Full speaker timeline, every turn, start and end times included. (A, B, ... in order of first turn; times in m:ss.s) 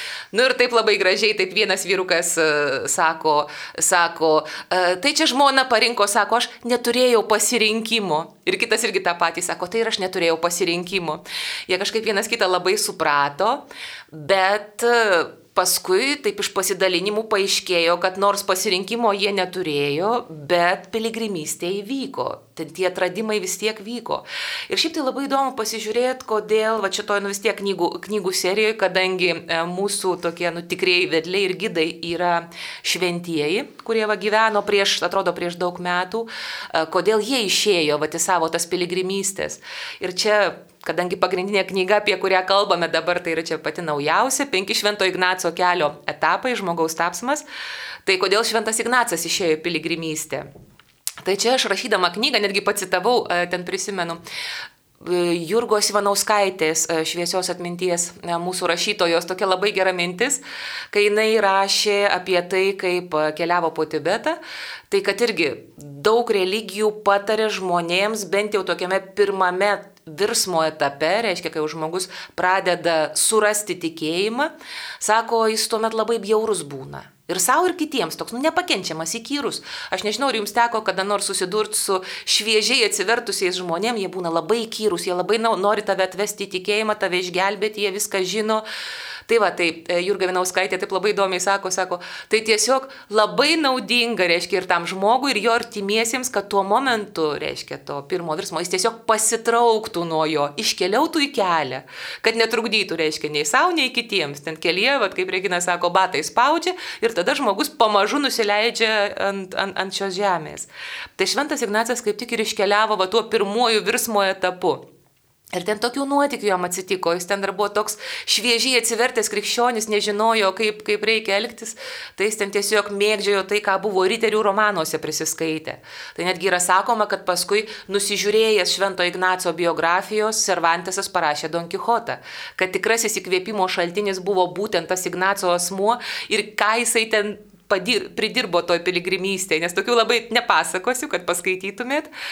0:00.3-0:47.4 A
0:48.0-0:50.5 A
0:51.2-0:54.2 A
0:55.0-1:00.4 A
1:00.9-1:04.4 A
1:04.9-1:28.6 A
1:29.3-1:54.8 A
1:55.5-2:22.1 A